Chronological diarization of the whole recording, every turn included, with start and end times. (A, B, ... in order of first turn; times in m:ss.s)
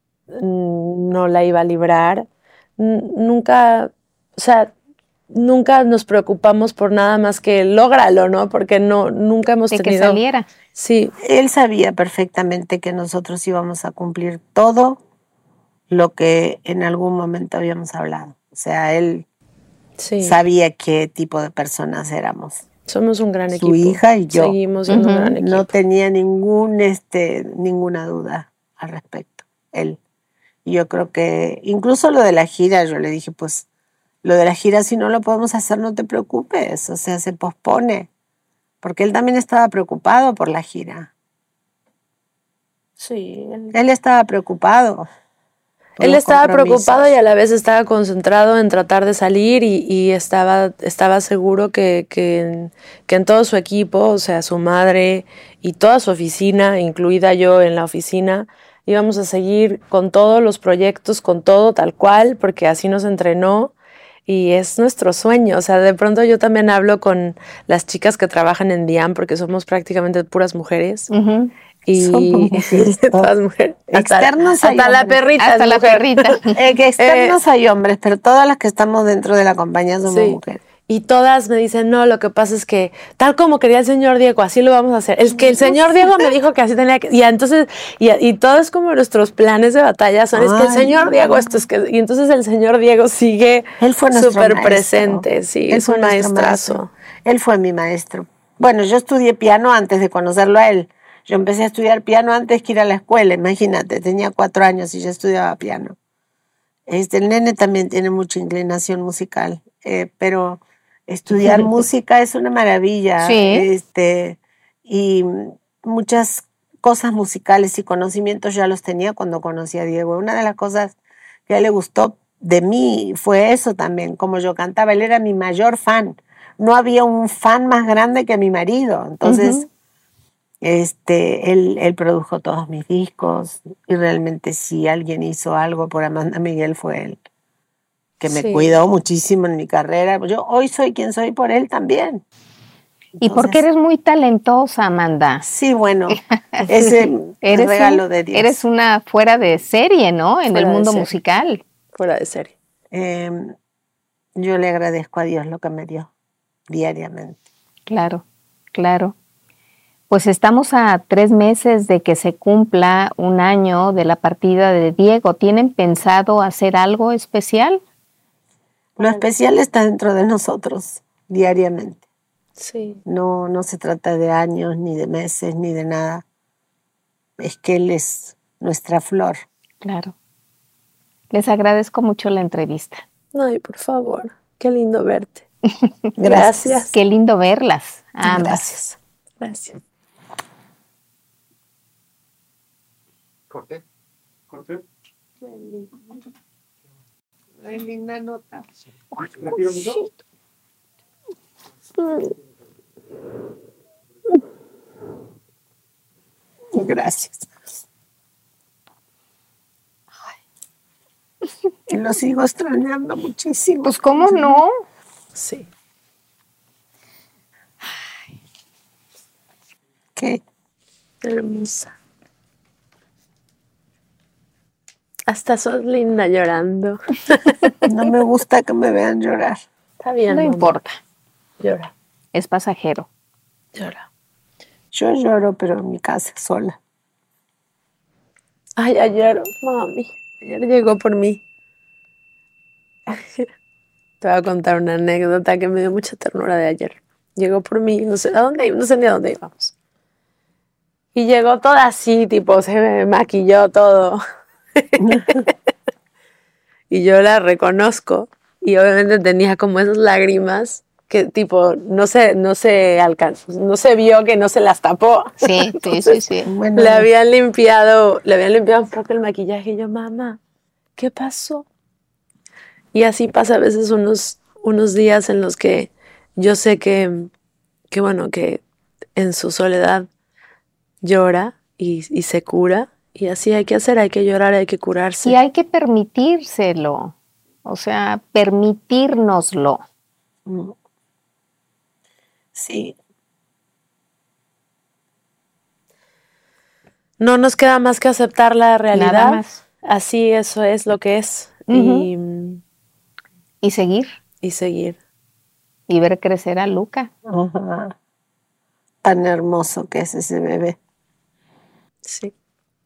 0:00.3-0:02.2 A
0:02.8-0:04.7 A
0:05.3-0:10.2 A
0:09.7-0:10.5 B
0:10.7-0:11.1 A
0:11.2-0:15.0 C
0:15.9-0:19.2 C
0:20.0-0:20.4 A
0:20.2-0:22.6 C
0:22.9-0:25.7 A
0:23.6-0:24.6 C
0:24.9-0:25.3 B
0:25.4-0:30.0 C
0:30.6-0:33.6 C
0:34.2-0:38.1 C
0:38.8-0:41.1 C
0:43.0-0:43.7 A
0:43.7-0:45.1 C
0:46.0-1:03.7 A
0:46.0-0:47.1 C
1:04.2-1:11.1 A
1:11.1-1:11.5 B
1:11.9-1:16.4 A
1:11.9-1:13.3 C
1:13.9-1:15.2 C
1:15.4-1:16.6 B
1:16.5-1:20.6 C
1:17.0-1:17.4 A
1:20.1-1:36.9 A
1:25.4-1:26.3 C
1:30.3-1:31.5 C
1:33.8-1:46.0 C
1:46.9-2:00.9 C
1:51.4-1:51.8 A
1:53.2-1:53.7 B
2:01.5-2:09.7 C
2:09.2-2:09.6 B
2:10.6-2:17.2 C
2:18.2-2:22.2 C
2:18.3-2:18.7 A
2:23.2-2:23.6 C
2:23.2-2:25.4 B
2:25.4-2:28.6 C
2:26.1-2:31.6 B
2:30.5-2:31.1 A
2:31.9-2:32.5 A
2:32.9-2:33.5 C
2:34.4-2:36.1 C
2:36.7-2:37.4 C
2:37.9-2:38.2 B
2:38.7-2:39.1 B
2:40.1-2:47.8 B
2:49.0-2:52.0 C
2:49.0-2:49.2 A
2:52.6-2:53.0 A
2:53.0-2:56.2 C
2:57.4-2:59.4 C
2:59.8-3:00.1 B
3:01.3-3:03.0 B
3:03.3-3:05.4 A
3:06.2-3:06.8 C
3:06.2-3:06.9 A
3:06.9-3:08.6 B
3:08.2-3:09.0 C
3:09.4-3:09.8 A
3:15.4-3:15.9 C
3:17.6-3:18.6 C
3:19.2-3:19.9 B
3:26.7-3:27.5 C
3:31.9-3:34.6 C
3:33.8-3:34.7 B
3:35.3-3:35.7 A
3:40.2-3:40.4 C
3:41.2-3:41.9 A
3:45.3-3:47.7 A
3:47.9-3:49.6 C
3:50.0-3:50.8 A
3:50.3-3:51.0 B
3:51.6-3:51.9 A
3:52.3-3:53.0 B
3:53.7-3:54.0 A
3:54.9-3:56.8 C
3:58.8-4:01.4 A
4:03.1-4:03.5 A
4:04.2-4:09.7 A
4:11.1-4:14.2 A
4:14.7-4:15.5 A
4:15.0-4:15.4 C
4:16.9-4:26.2 A
4:25.4-4:26.5 B
4:26.4-4:27.1 C
4:26.8-4:30.4 A
4:31.0-4:31.6 A
4:32.9-4:37.3 A
4:37.9-4:38.6 A
4:39.2-4:40.1 A
4:41.0-4:45.4 A
4:45.2-4:49.8 B
4:50.4-4:50.7 C
4:52.5-4:52.9 C
4:57.2-5:02.6 A
4:58.9-4:59.6 B
5:01.7-5:02.1 B
5:03.6-5:04.1 B
5:04.4-5:05.0 A
5:05.9-5:07.1 B
5:07.2-5:07.9 C
5:09.0-5:10.8 C
5:12.0-5:12.3 A